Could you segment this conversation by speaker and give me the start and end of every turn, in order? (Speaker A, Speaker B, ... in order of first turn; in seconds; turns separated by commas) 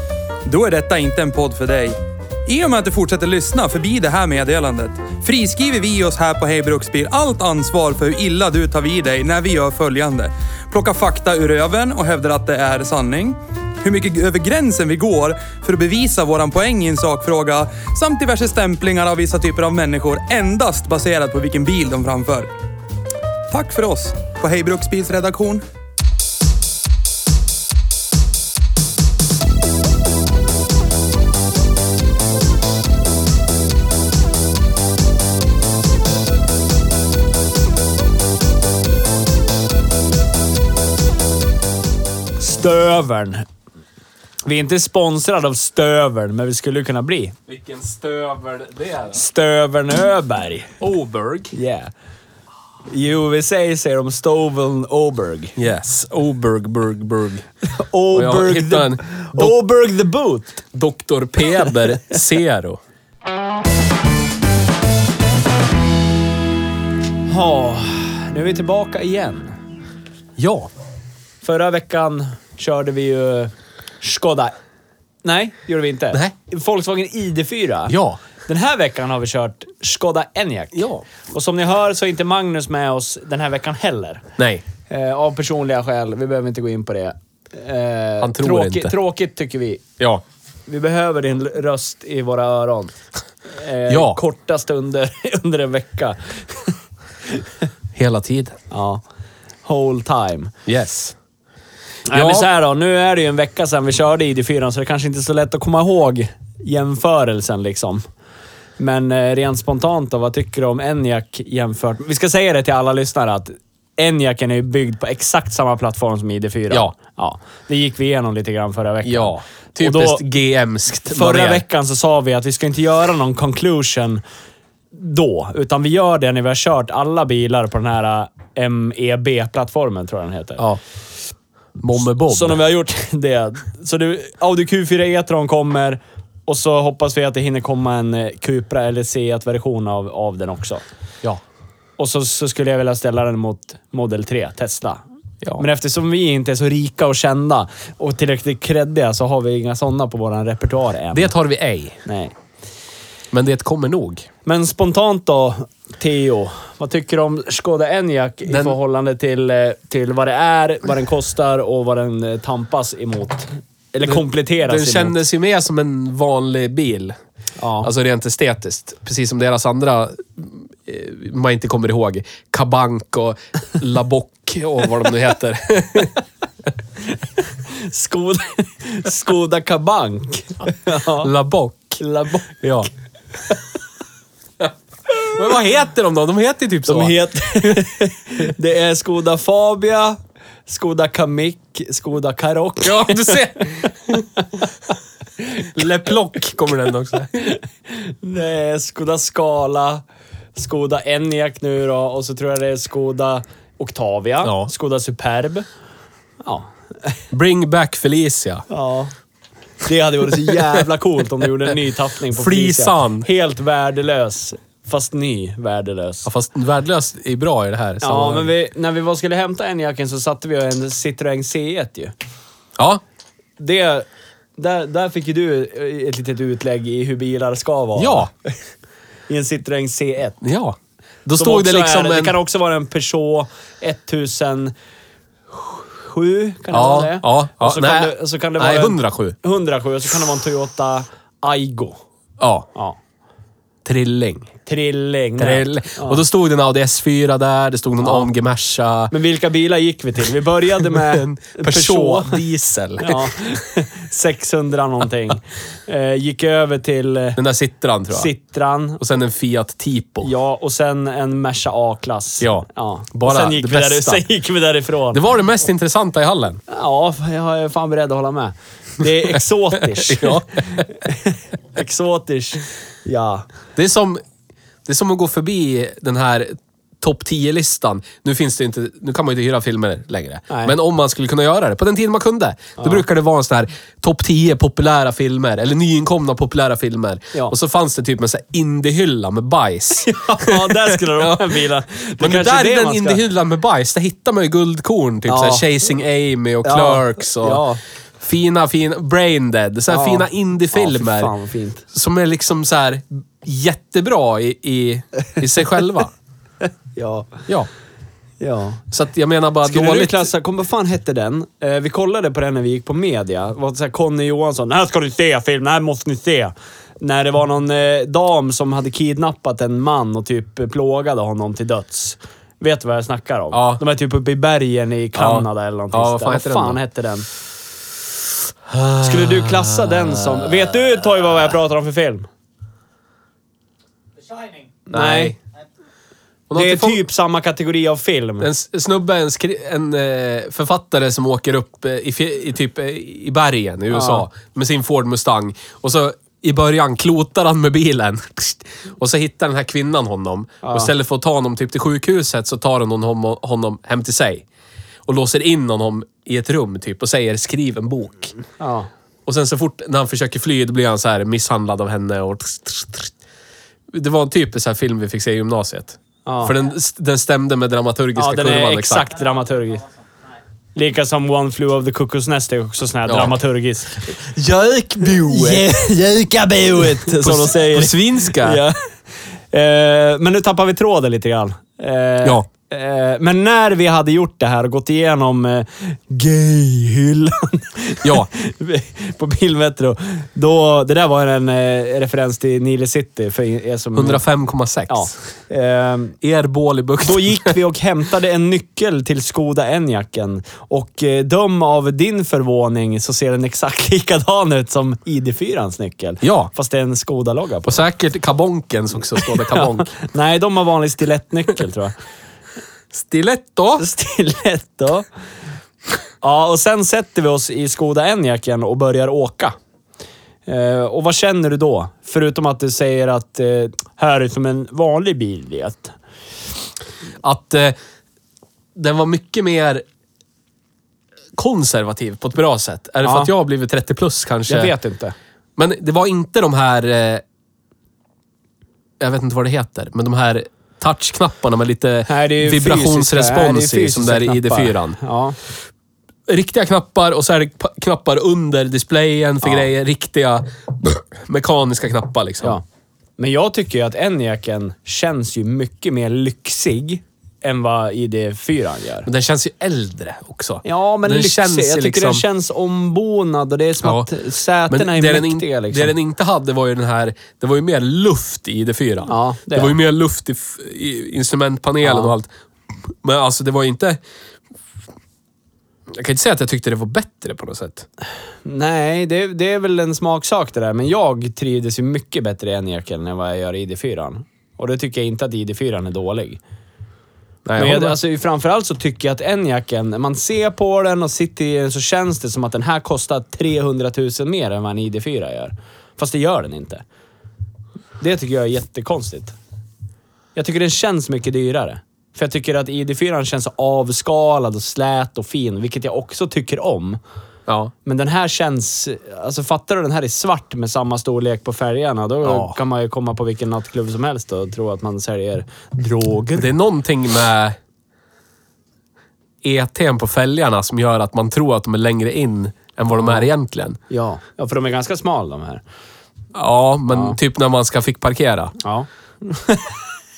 Speaker A: 0.5-22.5, Speaker A: 23.5-25.6, Speaker B: 42.4-43.5, Speaker B: 44.5-47.4, Speaker C: 47.5-49.2, Speaker B: 49.1-50.7, Speaker C: 50.8-51.5, Speaker B: 51.5-51.9, Speaker B: 52.9-55.6, Speaker C: 55.6-57.5, Speaker B: 57.6-60.6, Speaker C: 58.1-59.6, Speaker C: 60.7-62.8, Speaker B: 67.2-69.6, Speaker C: 70.4-70.7, Speaker B: 71.4-74.5, Speaker B: 75.2-84.2, Speaker C: 77.9-78.2, Speaker C: 80.8-81.0, Speaker C: 84.4-84.6, Speaker B: 84.9-89.8, Speaker C: 88.2-88.9, Speaker B: 90.7-93.0, Speaker B: 93.5-96.8, Speaker C: 93.9-94.2, Speaker C: 98.0-98.6, Speaker B: 98.7-99.0, Speaker B: 99.6-100.5, Speaker C: 100.7-101.1, Speaker B: 102.1-108.0, Speaker C: 102.1-102.5, Speaker B: 108.8-120.2, Speaker C: 119.0-121.6, Speaker B: 121.0-124.2, Speaker B: 124.9-130.6, Speaker C: 131.8-132.6, Speaker B: 132.2-140.8, Speaker B: 142.0-145.0, Speaker B: 145.6-151.3, Speaker C: 151.1-152.0, Speaker B: 152.1-152.3, Speaker C: 153.3-154.3, Speaker B: 154.4-165.2, Speaker C: 158.5-158.8, Speaker C: 164.0-167.2, Speaker B: 167.6-167.9, Speaker C: 167.8-176.2, Speaker B: 177.7-181.3, Speaker C: 181.2-182.0, Speaker B: 182.0-182.8, Speaker C: 182.6-182.9, Speaker C: 184.6-187.8, Speaker B: 186.9-193.9, Speaker C: 192.8-194.3, Speaker C: 195.6-197.5, Speaker B: 197.5-200.0, Speaker B: 200.6-205.7, Speaker C: 204.4-204.7, Speaker B: 206.4-207.1, Speaker C: 207.3-208.6, Speaker B: 208.7-209.1, Speaker B: 209.8-216.3, Speaker C: 212.3-213.3, Speaker C: 216.2-218.5, Speaker B: 218.0-222.1, Speaker C: 222.8-223.0, Speaker B: 223.6-228.6, Speaker C: 227.9-228.3, Speaker B: 229.3-230.4, Speaker C: 230.4-232.3, Speaker B: 231.4-234.7, Speaker B: 235.7-242.0, Speaker C: 236.7-239.4, Speaker C: 242.4-242.7, Speaker C: 243.8-244.5, Speaker B: 244.7-246.2, Speaker C: 245.4-249.1, Speaker B: 248.0-248.3, Speaker B: 249.1-252.4, Speaker C: 250.8-253.3, Speaker B: 253.0-257.4, Speaker C: 257.4-258.3, Speaker B: 258.1-259.0, Speaker C: 259.0-260.3, Speaker B: 260.2-265.2, Speaker C: 262.4-264.2, Speaker C: 265.1-266.6, Speaker B: 266.7-273.5, Speaker C: 269.9-270.8, Speaker C: 273.8-274.2, Speaker C: 274.9-291.6, Speaker B: 280.5-280.8, Speaker B: 282.8-283.0, Speaker B: 290.0-293.2, Speaker C: 292.2-297.6, Speaker B: 295.3-295.6, Speaker B: 296.6-297.8, Speaker C: 298.2-301.3, Speaker B: 299.9-301.8, Speaker C: 301.9-306.1, Speaker B: 306.9-307.5, Speaker B: 308.4-308.8, Speaker C: 308.9-310.3, Speaker B: 309.6-327.3, Speaker C: 323.5-323.8, Speaker C: 325.1-326.8, Speaker C: 328.7-330.8, Speaker B: 329.0-332.3, Speaker C: 334.9-335.4, Speaker B: 334.9-335.4, Speaker C: 336.5-337.0, Speaker B: 336.5-338.5, Speaker C: 338.4-354.4, Speaker B: 343.9-344.2, Speaker B: 350.6-350.9, Speaker C: 355.1-358.3, Speaker B: 358.6-358.9, Speaker C: 359.2-363.1, Speaker C: 363.9-369.1, Speaker B: 366.2-366.6, Speaker B: 368.1-369.8, Speaker B: 370.8-374.1, Speaker C: 373.1-373.3, Speaker C: 374.0-375.7, Speaker B: 375.2-378.9, Speaker C: 377.0-378.6, Speaker B: 379.5-394.2, Speaker C: 393.9-395.1, Speaker B: 394.9-396.2, Speaker C: 396.2-397.5, Speaker B: 397.0-407.8, Speaker C: 406.2-406.5, Speaker C: 407.6-409.9, Speaker B: 409.3-411.9, Speaker C: 412.9-413.8, Speaker B: 413.8-415.0, Speaker B: 416.2-419.6, Speaker B: 420.4-425.9, Speaker C: 427.2-427.8, Speaker C: 428.8-429.8, Speaker C: 431.4-434.7, Speaker B: 433.0-433.3, Speaker B: 434.5-435.1, Speaker C: 435.6-437.2, Speaker C: 439.0-445.0, Speaker B: 442.1-445.4, Speaker C: 446.3-452.6, Speaker B: 449.4-449.7, Speaker B: 453.2-459.1, Speaker C: 459.0-462.2, Speaker B: 460.6-465.9, Speaker C: 463.8-464.1, Speaker C: 464.7-474.0, Speaker B: 469.1-469.8, Speaker B: 471.8-472.1, Speaker C: 475.9-477.9, Speaker B: 478.4-486.4, Speaker C: 487.4-487.9, Speaker B: 487.6-496.8, Speaker B: 498.0-499.4, Speaker B: 500.3-507.0, Speaker C: 507.5-507.7, Speaker B: 507.8-516.5, Speaker C: 512.2-512.6, Speaker C: 516.4-517.6, Speaker C: 519.4-523.8, Speaker B: 522.9-523.3, Speaker B: 523.9-525.6, Speaker C: 526.3-528.5, Speaker B: 526.9-527.2, Speaker B: 528.6-529.8